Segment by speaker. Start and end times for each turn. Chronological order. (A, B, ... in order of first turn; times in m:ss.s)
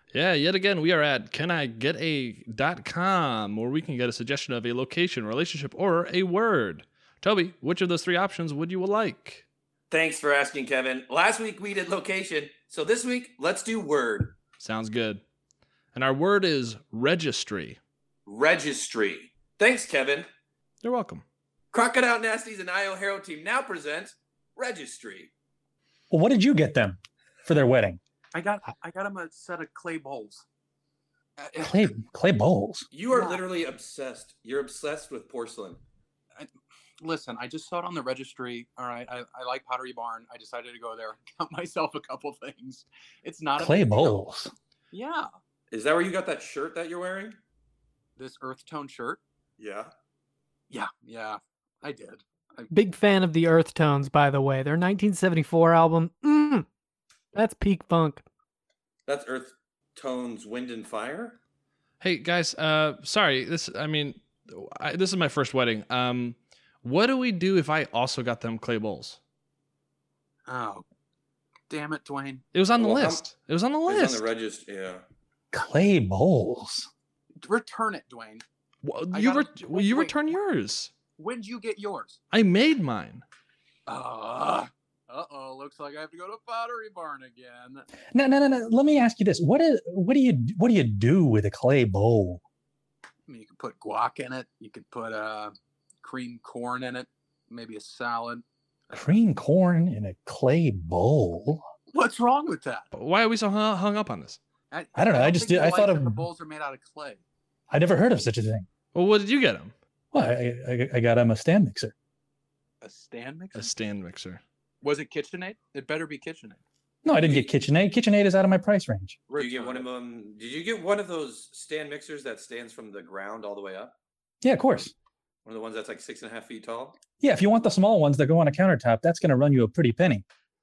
0:00.1-0:09.4 A
0:09.9-0:14.3 B
0:14.6-0:15.2 A
0:15.9-0:17.8 A
0:18.2-0:20.3 B
0:20.8-0:21.2 A
0:21.7-0:25.3 B
0:26.1-0:28.0 C
0:28.3-0:30.4 D
0:31.4-0:31.8 D
0:31.6-0:32.9 C
0:32.9-0:35.8 B
0:33.1-0:33.4 D
0:36.4-0:44.2 D
0:43.6-0:44.5 C
0:44.9-0:45.3 D
0:45.7-0:47.4 B
0:48.2-0:49.2 D
0:49.6-0:49.9 B
0:50.7-0:52.7 D
0:52.7-0:56.6 E
0:57.3-0:58.2 E
0:59.1-1:01.4 B
1:02.0-1:09.2 A
1:10.5-1:10.8 D
1:11.7-1:12.4 D
1:12.5-1:14.2 A
1:12.8-1:13.2 B
1:13.9-1:15.0 B
1:15.5-1:16.9 C
1:17.4-1:18.4 D
1:18.8-1:20.9 A
1:19.1-1:20.4 D
1:21.2-1:22.2 D
1:22.3-1:23.2 A
1:23.9-1:27.9 D
1:28.1-1:32.4 C
1:33.3-1:38.4 D
1:38.9-1:41.6 C
1:41.9-1:42.8 D
1:42.9-1:44.4 A
1:44.7-1:47.2 D
1:44.9-1:46.3 C
1:47.7-1:48.6 C
1:48.9-1:49.7 A
1:50.1-1:51.9 C
1:52.8-1:53.7 D
1:53.5-1:54.4 A
1:54.8-1:56.6 D
1:57.0-1:59.2 C
1:57.1-1:57.5 D
1:59.3-1:59.9 D
1:59.4-2:03.9 B
2:04.4-2:04.9 C
2:05.4-2:07.0 B
2:07.2-2:10.2 C